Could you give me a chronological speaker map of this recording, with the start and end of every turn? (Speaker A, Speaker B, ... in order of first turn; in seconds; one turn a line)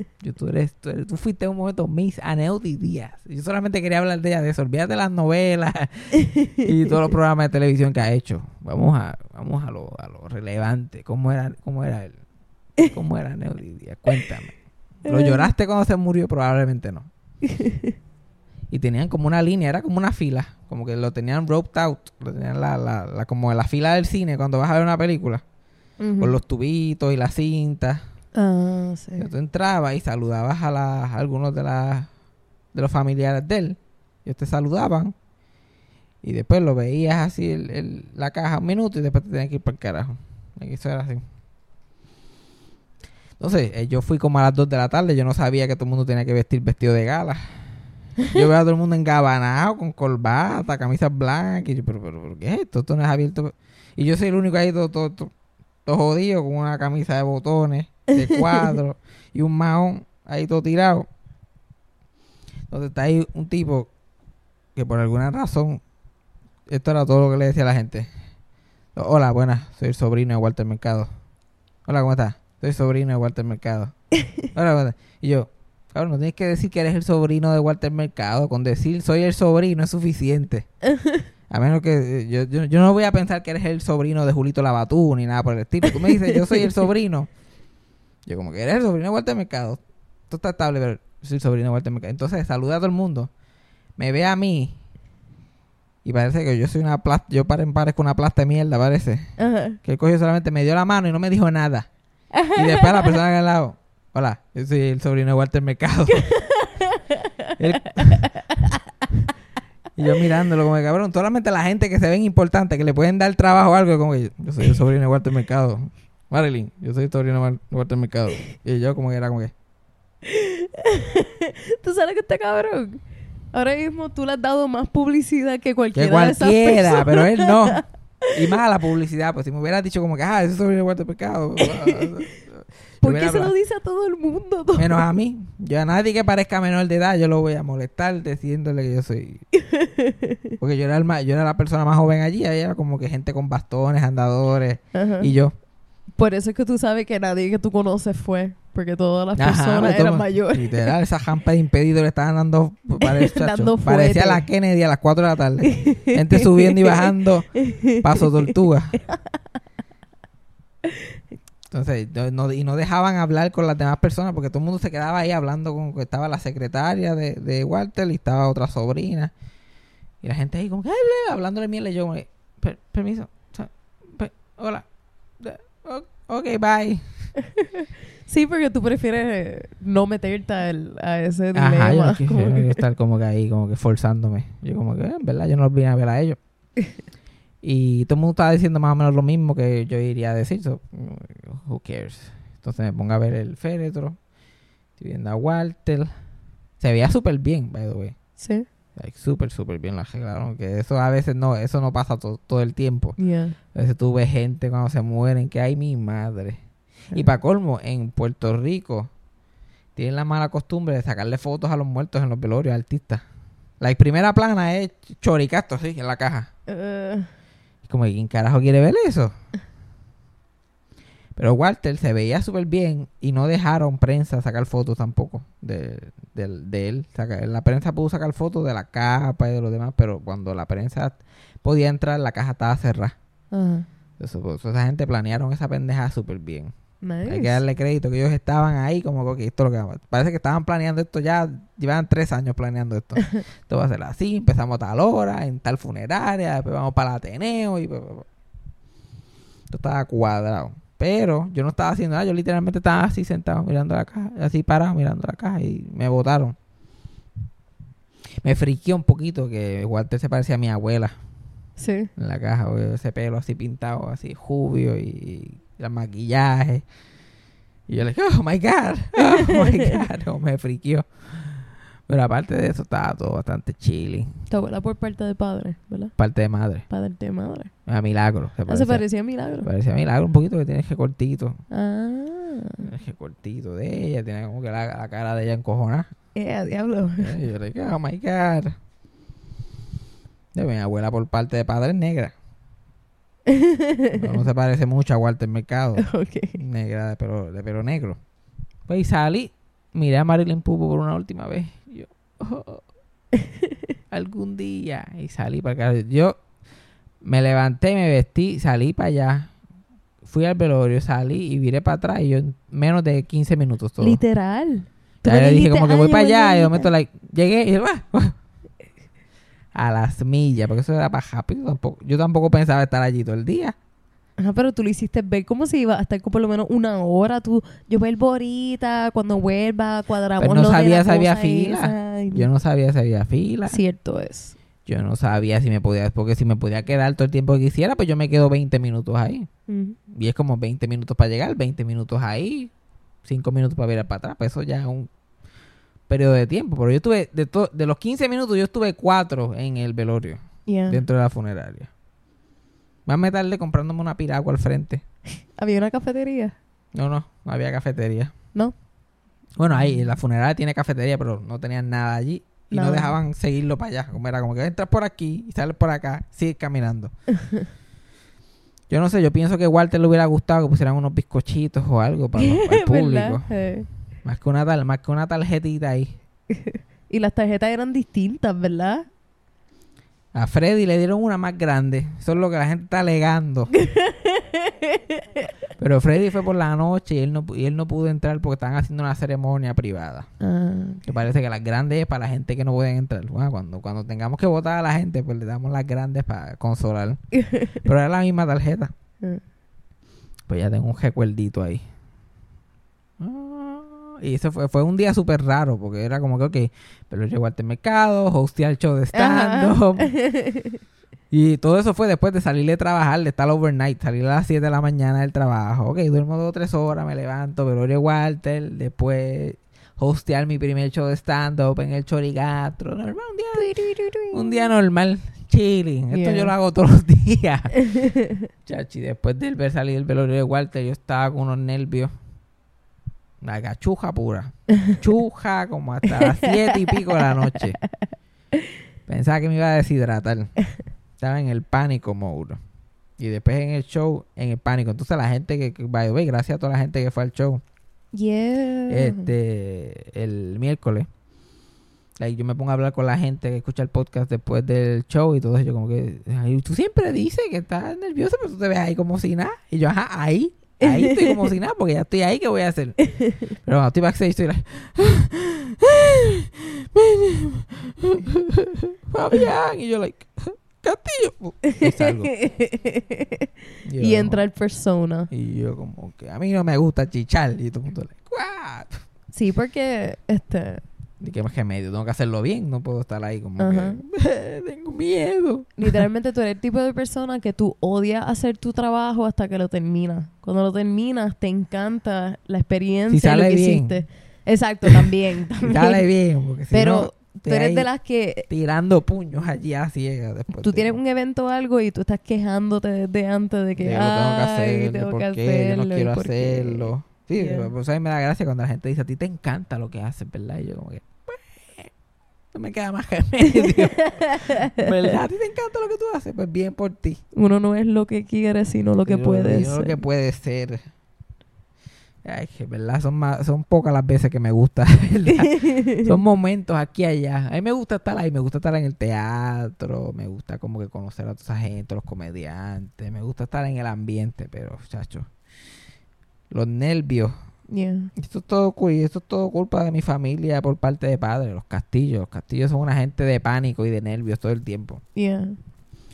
Speaker A: 0.2-12.2
Speaker A: 12.8-17.1
Speaker B: 15.1-15.5
Speaker B: 17.4-17.9
Speaker A: 18.7-25.4
Speaker B: 26.0-26.4
Speaker A: 26.2-28.0
Speaker B: 28.3-29.3
Speaker A: 29.2-32.1
Speaker A: 32.7-35.1
Speaker A: 36.2-41.2
Speaker A: 43.4-47.6
Speaker A: 48.2-55.3
Speaker A: 55.9-61.0
Speaker B: 58.2-58.8
Speaker A: 62.7-63.9
Speaker A: 64.7-65.8
Speaker A: 66.7-68.1
Speaker A: 68.9-71.1
Speaker A: 71.8-80.7
Speaker B: 80.9-81.2
Speaker A: 81.5-87.3
Speaker B: 85.9-86.7
Speaker A: 88.2-93.3
Speaker A: 94.0-94.8
Speaker A: 96.0-99.3
Speaker B: 99.4-99.8
Speaker A: 99.8-101.9
Speaker B: 102.3-103.2
Speaker A: 102.5-106.3
Speaker B: 106.2-107.5
Speaker A: 107.6-108.3
Speaker A: 110.0-119.5
Speaker B: 120.2-127.8
Speaker A: 125.9-133.5
Speaker B: 131.6-132.2
Speaker B: 133.0-135.0
Speaker A: 134.8-139.4
Speaker B: 139.5-140.5
Speaker A: 140.6-145.5
Speaker B: 144.9-145.3
Speaker B: 146.2-150.9
Speaker A: 149.3-159.0
Speaker B: 153.0-154.5
Speaker B: 155.7-159.4
Speaker B: 160.8-161.2
Speaker A: 161.7-169.3
Speaker A: 170.2-174.8
Speaker A: 175.4-177.3
Speaker B: 177.6-182.8
Speaker A: 181.5-186.4
Speaker A: 187.6-194.2
Speaker A: 195.0-196.1
Speaker A: 196.8-198.2
Speaker B: 198.4-198.7
Speaker A: 198.9-203.2
Speaker B: 203.2-203.6
Speaker A: 203.7-206.6
Speaker A: 207.1-209.1
Speaker A: 209.9-213.2
Speaker A: 213.8-216.5
Speaker B: 216.7-217.3
Speaker A: 217.8-219.3
Speaker A: 221.3-233.2
Speaker B: 233.5-233.8
Speaker A: 234.2-236.7
Speaker B: 237.0-237.6
Speaker A: 237.2-248.3
Speaker A: 249.7-256.6
Speaker A: 258.4-261.1
Speaker B: 261.8-262.1
Speaker A: 262.1-266.8
Speaker A: 267.9-274.4
Speaker B: 269.3-269.9
Speaker B: 274.5-276.1
Speaker A: 276.2-276.8
Speaker B: 276.9-277.7
Speaker A: 277.9-279.1
Speaker B: 278.7-279.7
Speaker A: 279.6-281.6
Speaker B: 281.7-282.8
Speaker A: 282.8-286.1
Speaker B: 286.3-287.3
Speaker A: 287.2-288.7
Speaker A: 290.5-292.3
Speaker B: 293.5-294.4
Speaker A: 294.1-298.2
Speaker B: 296.0-296.6
Speaker A: 298.9-302.8
Speaker B: 303.4-303.7
Speaker A: 304.1-306.4
Speaker A: 307.2-309.5
Speaker A: 310.2-314.2
Speaker B: 314.0-316.9
Speaker A: 315.2-318.3
Speaker A: 319.7-323.7
Speaker B: 324.4-332.5
Speaker A: 330.4-333.8
Speaker B: 333.7-334.5
Speaker A: 334.9-339.5
Speaker B: 339.7-340.0
Speaker A: 340.1-342.7
Speaker A: 343.2-345.1
Speaker A: 346.1-351.9
Speaker B: 350.7-351.0
Speaker A: 353.1-355.0
Speaker B: 355.5-356.5
Speaker A: 356.9-358.3
Speaker A: 359.6-367.1
Speaker B: 362.7-363.1
Speaker A: 368.9-373.5
Speaker B: 372.4-373.9
Speaker A: 374.2-376.2
Speaker B: 376.5-379.1
Speaker A: 380.3-383.7
Speaker B: 383.7-385.5
Speaker A: 385.8-390.3
Speaker B: 390.4-391.0
Speaker A: 391.0-398.9
Speaker B: 397.4-397.8
Speaker A: 400.5-401.8
Speaker A: 403.2-410.1
Speaker B: 409.1-410.8
Speaker A: 411.3-423.8
Speaker B: 423.6-424.7
Speaker A: 424.3-427.9
Speaker B: 426.1-426.5
Speaker B: 427.9-428.3
Speaker A: 428.6-432.1
Speaker A: 433.4-437.8
Speaker B: 436.1-437.3
Speaker A: 439.1-440.5
Speaker A: 441.2-442.6
Speaker A: 443.2-447.6
Speaker B: 448.1-449.3
Speaker A: 448.9-451.1
Speaker A: 452.2-463.0
Speaker B: 460.8-461.5
Speaker A: 463.6-472.3
Speaker B: 471.8-475.3
Speaker A: 473.8-474.4
Speaker A: 475.3-479.1
Speaker B: 479.3-480.8
Speaker A: 481.2-486.0
Speaker B: 483.6-484.0
Speaker B: 485.8-496.0
Speaker A: 493.1-494.0
Speaker A: 495.6-497.9
Speaker B: 496.7-498.5
Speaker A: 498.4-500.9
Speaker B: 500.5-507.7
Speaker A: 503.8-511.9
Speaker A: 512.5-517.2
Speaker B: 513.6-515.1
Speaker B: 517.3-520.0
Speaker A: 519.0-520.8
Speaker A: 522.2-535.3
Speaker B: 525.3-526.1
Speaker A: 536.5-537.3
Speaker B: 537.7-538.1
Speaker A: 538.1-545.0
Speaker B: 545.1-545.6